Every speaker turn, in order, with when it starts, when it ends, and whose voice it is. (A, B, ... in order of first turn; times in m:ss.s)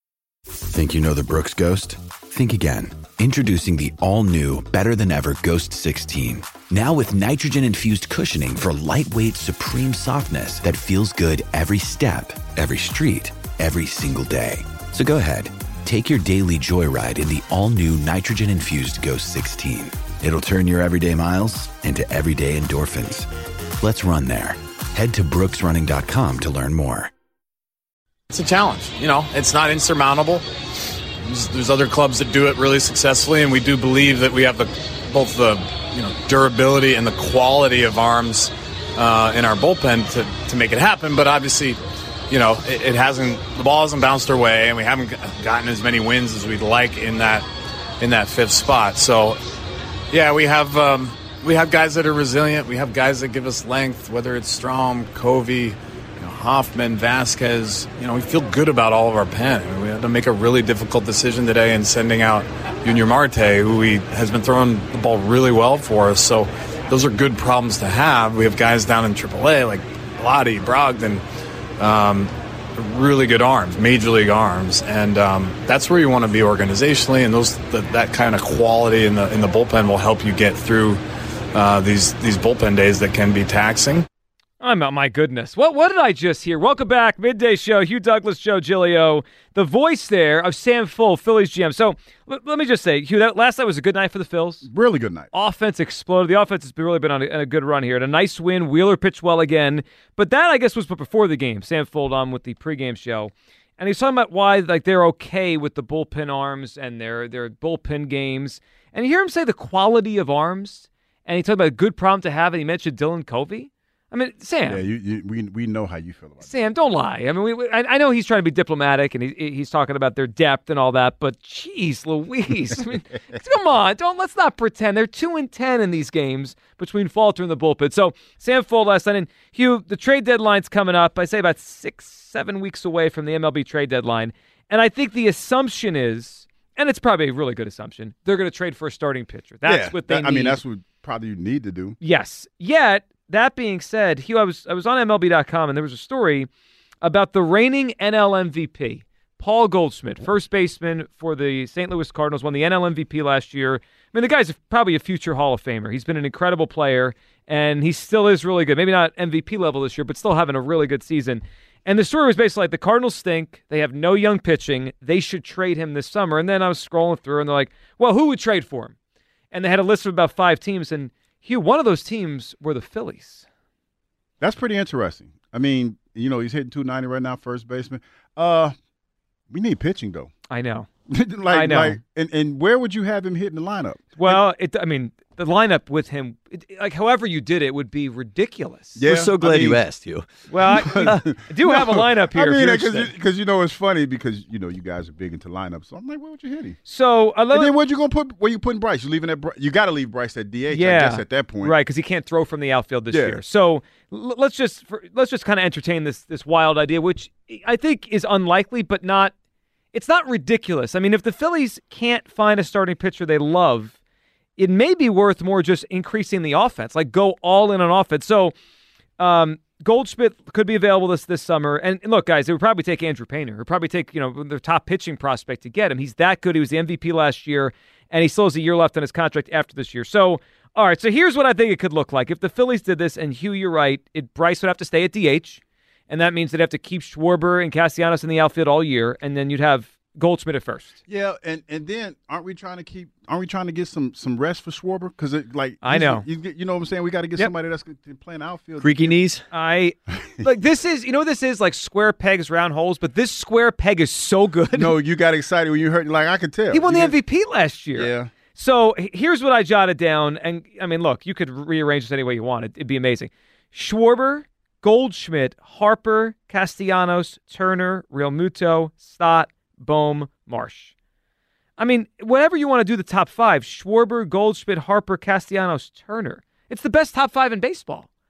0:00.7-0:23.3 A
0:23.8-0:27.1 A
0:28.3-0:30.5 B
0:31.2-0:47.5 B
0:48.0-0:49.4 B
0:50.1-1:11.2 B
1:11.8-1:21.0 B
1:21.5-1:24.1 B
1:24.6-1:34.7 C
1:34.6-1:35.3 D
1:35.3-1:54.8 C
1:54.7-1:56.5 D
1:56.4-2:20.6 C
2:19.6-2:22.0 D
2:22.0-2:26.5 C
2:27.0-2:48.9 C
2:49.5-2:53.4 C
2:54.4-2:58.8 D
2:59.5-3:00.3 D
3:00.5-3:00.9 C
3:01.1-3:04.4 D
3:01.5-3:02.0 C
3:04.2-3:09.0 C
3:09.0-3:09.8 D
3:09.0-3:11.2 E
3:10.5-3:13.1 C
3:10.7-3:16.8 D
3:16.9-3:17.7 C
3:17.5-3:21.8 D
3:20.7-3:29.3 C
3:23.1-3:23.4 D
3:29.9-3:34.0 C
3:34.6-3:38.5 C
3:39.2-4:01.0 C
4:01.1-4:09.2 D
4:05.8-4:06.3 C
4:08.8-4:09.4 E
4:09.5-4:15.0 C
4:14.7-4:17.2 D
4:16.7-4:30.9 C
4:18.0-4:18.3 D
4:31.8-4:38.1 C